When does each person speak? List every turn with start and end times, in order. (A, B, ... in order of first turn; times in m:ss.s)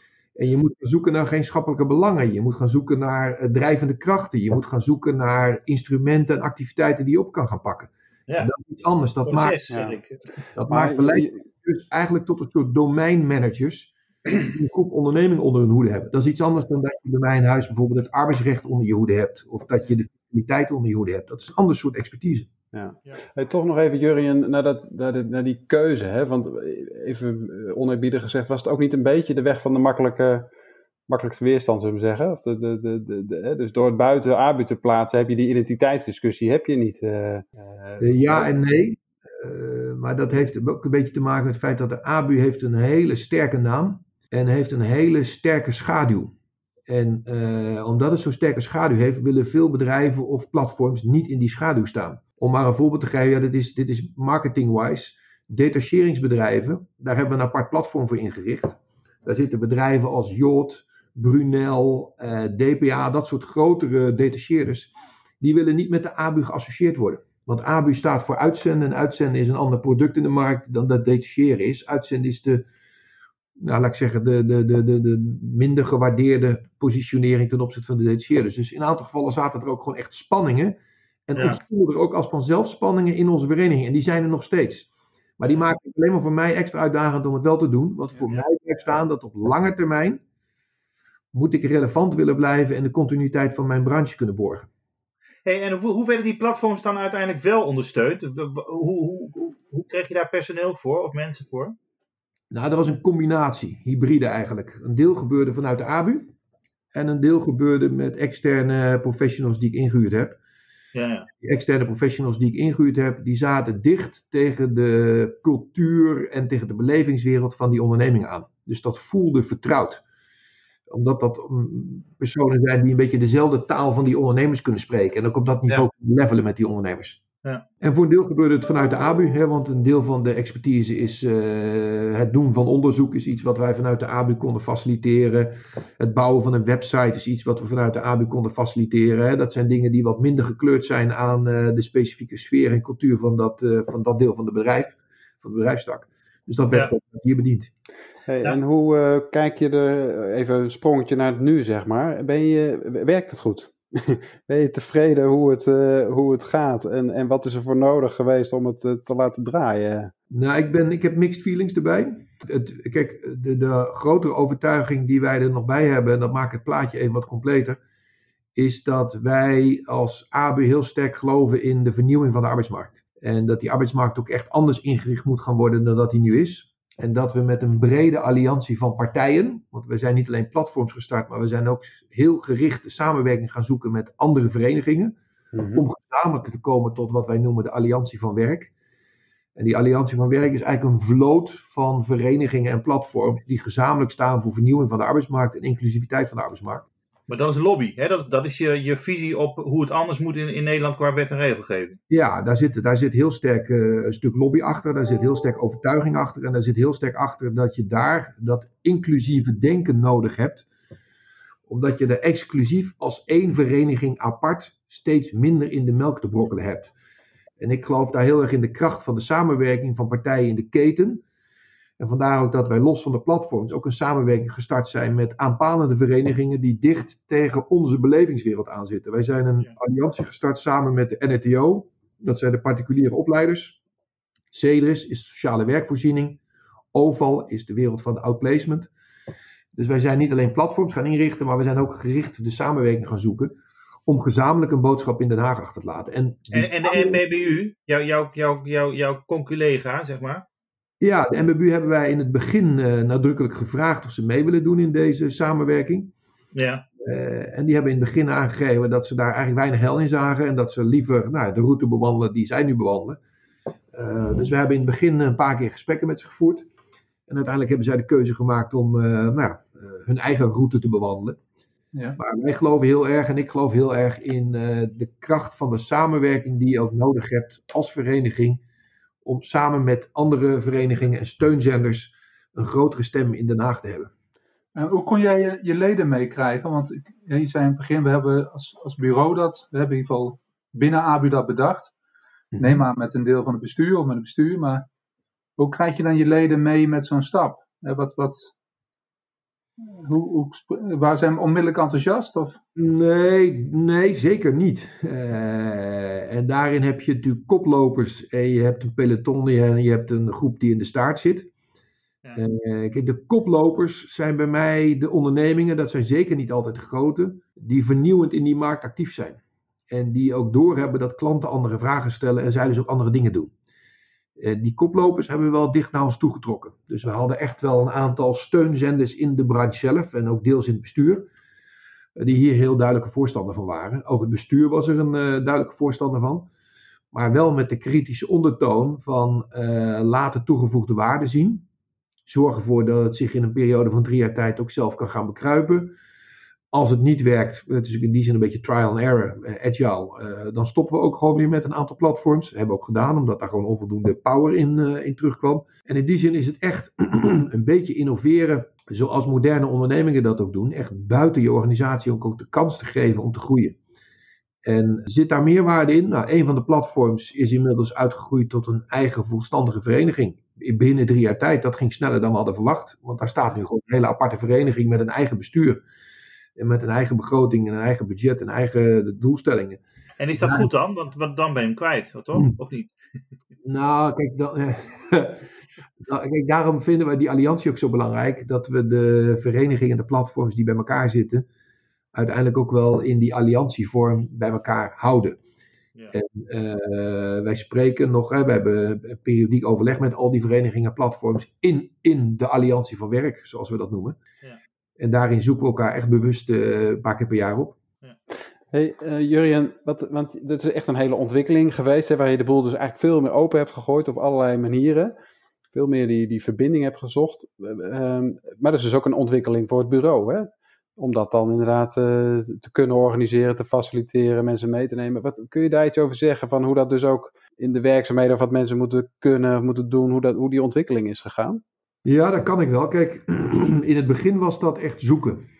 0:00.4-0:09.6 A
0:09.2-0:10.2 B
0:09.7-0:10.0 C
0:10.6-0:22.5 A
0:10.7-0:11.4 C
0:22.7-0:30.5 C
0:31.1-0:38.5 C
0:38.0-0:46.3 A
0:46.9-1:12.6 A
1:13.6-1:30.2 A
1:28.2-1:28.5 B
1:31.3-1:34.7 A
1:35.5-1:41.8 B
1:42.5-1:46.3 A
1:46.9-1:50.4 A
1:51.0-1:51.3 B
1:51.4-2:00.0 A
2:00.9-2:07.2 A
2:07.8-2:27.7 A
2:28.3-2:40.1 C
2:40.3-2:47.8 A
2:48.6-3:05.1 A
3:05.5-3:05.9 C
3:05.8-3:08.7 A
3:09.6-3:16.9 A
3:17.3-3:22.0 B
3:22.1-3:30.7 A
3:31.7-3:36.9 A
3:37.6-3:41.2 A
3:42.0-3:53.8 A
3:54.5-3:56.4 A
3:56.9-3:58.9 A
3:59.8-4:03.5 A
4:04.1-4:07.2 A
4:06.5-4:10.4 B
4:11.0-4:16.1 A
4:16.5-4:16.8 B
4:17.0-4:23.2 A
4:23.9-4:26.7 A
4:27.3-4:31.4 A
4:31.9-4:32.2 D
4:32.2-4:38.6 A
4:39.2-4:44.1 A
4:44.8-4:51.9 D
4:52.5-4:52.8 A
4:52.6-4:54.8 D
4:55.6-4:58.5 D
4:59.8-5:02.6 D
5:02.8-5:11.5 A
5:12.4-5:19.4 A
5:19.9-5:23.5 A
5:24.4-5:31.3 A
5:32.2-5:36.5 A
5:37.1-5:41.6 A
5:42.3-5:45.9 A
5:46.7-6:03.8 A
6:04.6-6:15.8 A
6:16.6-6:19.8 A
6:20.2-6:22.9 B
6:20.4-6:20.7 A
6:23.6-6:25.5 A
6:26.0-6:31.5 A
6:32.1-6:35.4 A
6:36.1-6:44.2 A
6:45.0-6:47.8 A
6:48.7-6:55.2 C
6:55.7-7:11.6 C
7:12.0-7:15.4 A